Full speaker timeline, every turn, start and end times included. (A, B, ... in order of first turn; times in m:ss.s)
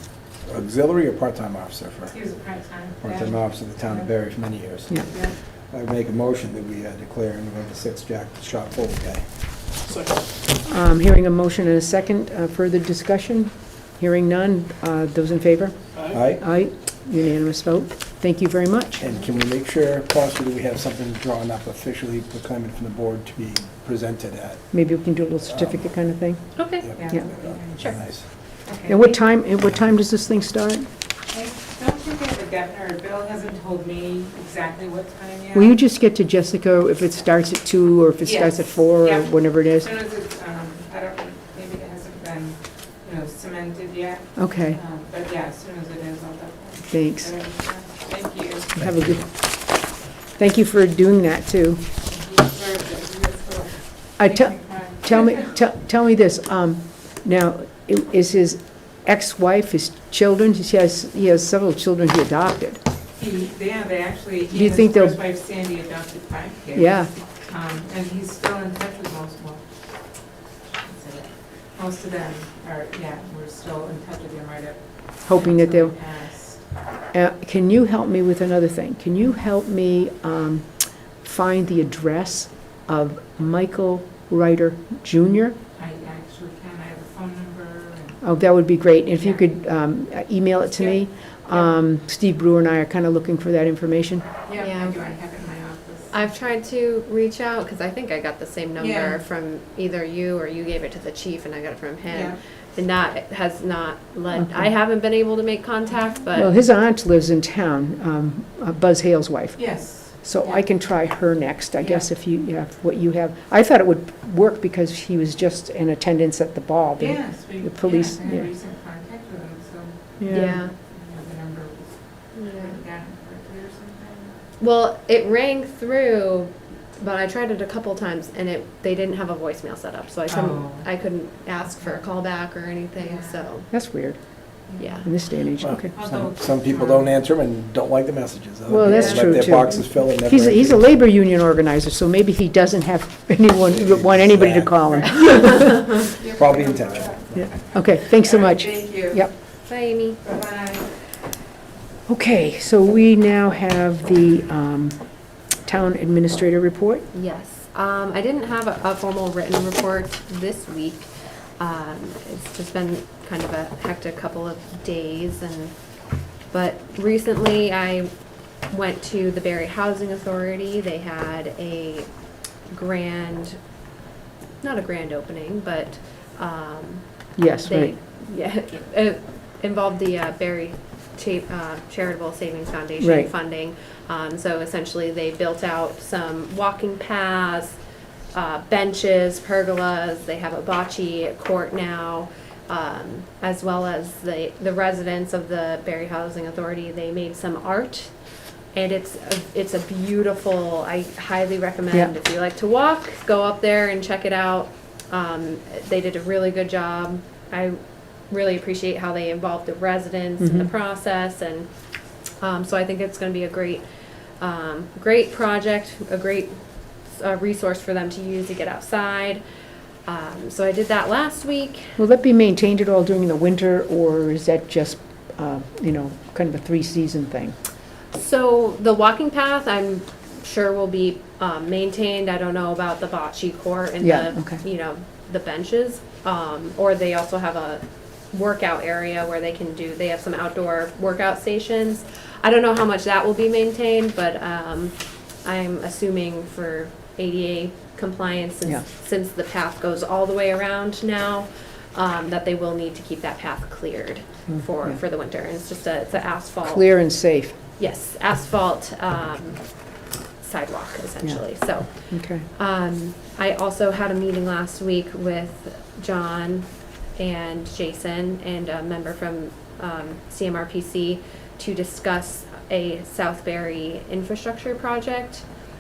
0:00.4-0:02.2 A
0:02.1-0:03.3 B
0:03.0-0:09.2 A
0:10.6-0:19.0 C
0:16.1-0:16.4 A
0:19.0-0:24.6 A
0:24.7-0:26.5 C
0:26.6-0:27.0 D
0:27.0-0:27.8 B
0:27.0-0:28.3 A
0:27.8-0:28.0 D
0:28.9-0:30.9 C
0:31.3-0:35.7 B
0:35.5-0:39.9 C
0:38.2-0:48.7 B
0:44.4-0:44.8 C
0:46.9-0:47.4 C
0:48.8-0:49.3 C
0:50.4-0:51.8 C
0:52.1-0:55.4 B
0:54.2-1:02.8 C
1:03.2-1:09.6 B
1:04.5-1:05.2 C
1:06.8-1:07.1 C
1:10.8-1:16.6 B
1:15.2-1:16.0 C
1:17.1-1:25.6 C
1:25.8-1:28.2 B
1:28.2-1:34.3 C
1:34.5-1:36.1 B
1:34.5-1:35.2 D
1:36.1-1:46.5 D
1:38.8-1:39.2 B
1:42.1-1:42.4 B
1:44.4-1:44.7 C
1:46.4-1:58.5 C
1:49.6-1:50.2 B
1:57.0-2:04.4 B
2:00.2-2:00.6 C
2:00.3-2:00.7 D
2:02.4-2:02.8 D
2:04.6-2:13.7 D
2:10.3-2:10.8 B
2:13.0-2:13.3 B
2:13.7-2:14.2 C
2:14.7-2:15.0 B
2:14.8-2:15.1 D
2:15.0-2:15.9 C
2:15.6-2:20.8 A
2:15.9-2:17.0 B
2:18.7-2:26.0 C
2:23.7-2:25.6 A
2:26.2-2:29.2 B
2:26.2-2:27.2 A
2:27.4-2:29.3 C
2:29.7-2:30.2 D
2:30.2-2:30.9 B
2:32.1-2:35.0 C
2:35.6-2:37.0 C
2:37.1-2:41.1 D
2:41.6-2:45.7 D
2:46.5-2:48.1 D
2:48.7-2:52.1 D
2:52.7-2:53.6 D
2:54.6-2:57.0 D
2:57.4-2:58.0 C
2:57.6-3:07.8 D
3:03.0-3:03.3 C
3:08.3-3:18.1 D
3:18.8-3:27.8 D
3:28.3-3:31.7 D
3:30.4-3:30.7 C
3:32.4-3:33.8 D
3:34.4-3:36.6 D
3:37.1-3:39.4 D
3:40.1-3:42.0 D
3:42.0-3:47.6 C
3:48.2-4:16.9 D
3:54.0-3:54.6 C
4:14.5-4:15.0 C
4:16.6-4:17.6 C
4:17.8-4:19.6 D
4:20.4-4:35.4 D
4:21.2-4:22.5 C